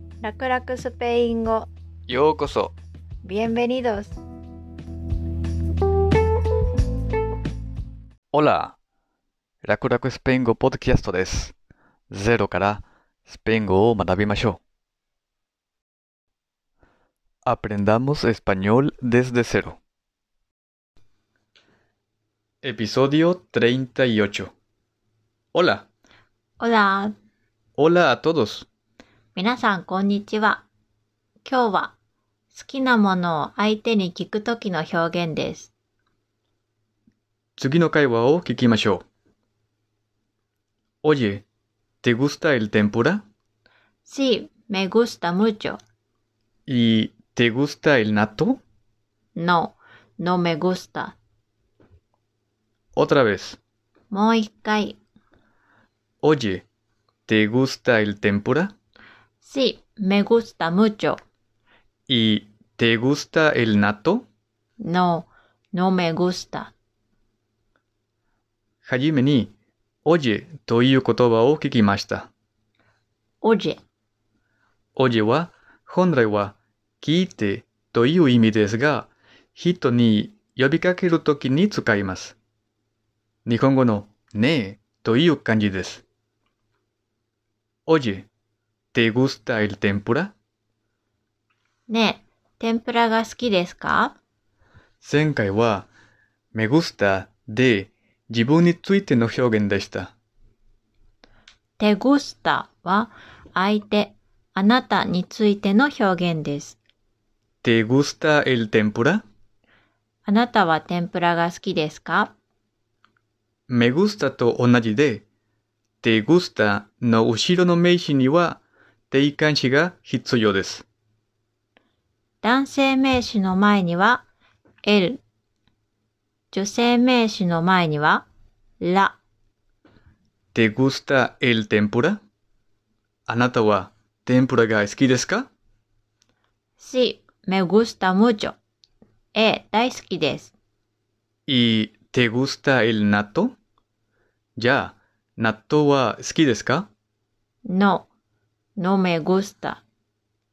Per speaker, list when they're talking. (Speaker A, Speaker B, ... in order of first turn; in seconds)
Speaker A: 0.2-1.7, 3.2-4.2, 26.6-27.1, 29.3-30.7, 31.4-31.9, 32.5-35.7, 44.0-45.8, 49.3-51.2, 54.1-55.0, 59.4-61.2, 64.8-66.7, 73.4-73.8, 91.9-94.2, 101.8-106.8, 110.2-112.3, 122.4-124.2, 124.8-125.2, 126.5-128.2, 128.8-129.2, 136.8-138.6, 139.3-140.5, 147.7-148.1, 148.8-149.8
Speaker B: 2.1-2.8, 8.3-8.8, 9.6-11.5, 12.1-14.6, 17.4-19.8, 22.6-24.5, 25.5-25.9, 27.8-28.7, 37.6-39.0, 41.0-41.4, 42.0-43.2, 46.7-48.6, 53.0-53.6, 56.2-56.6, 57.3-58.7, 62.1-64.2, 68.8-69.5, 70.0-72.3, 75.0-82.4, 83.5-86.0, 87.9-88.3, 88.9-90.3, 95.0-95.9, 96.5-100.1, 107.6-109.2, 113.7-115.2, 116.0-120.8, 130.5-132.2, 133.3-135.5, 141.5-143.6, 144.6-146.9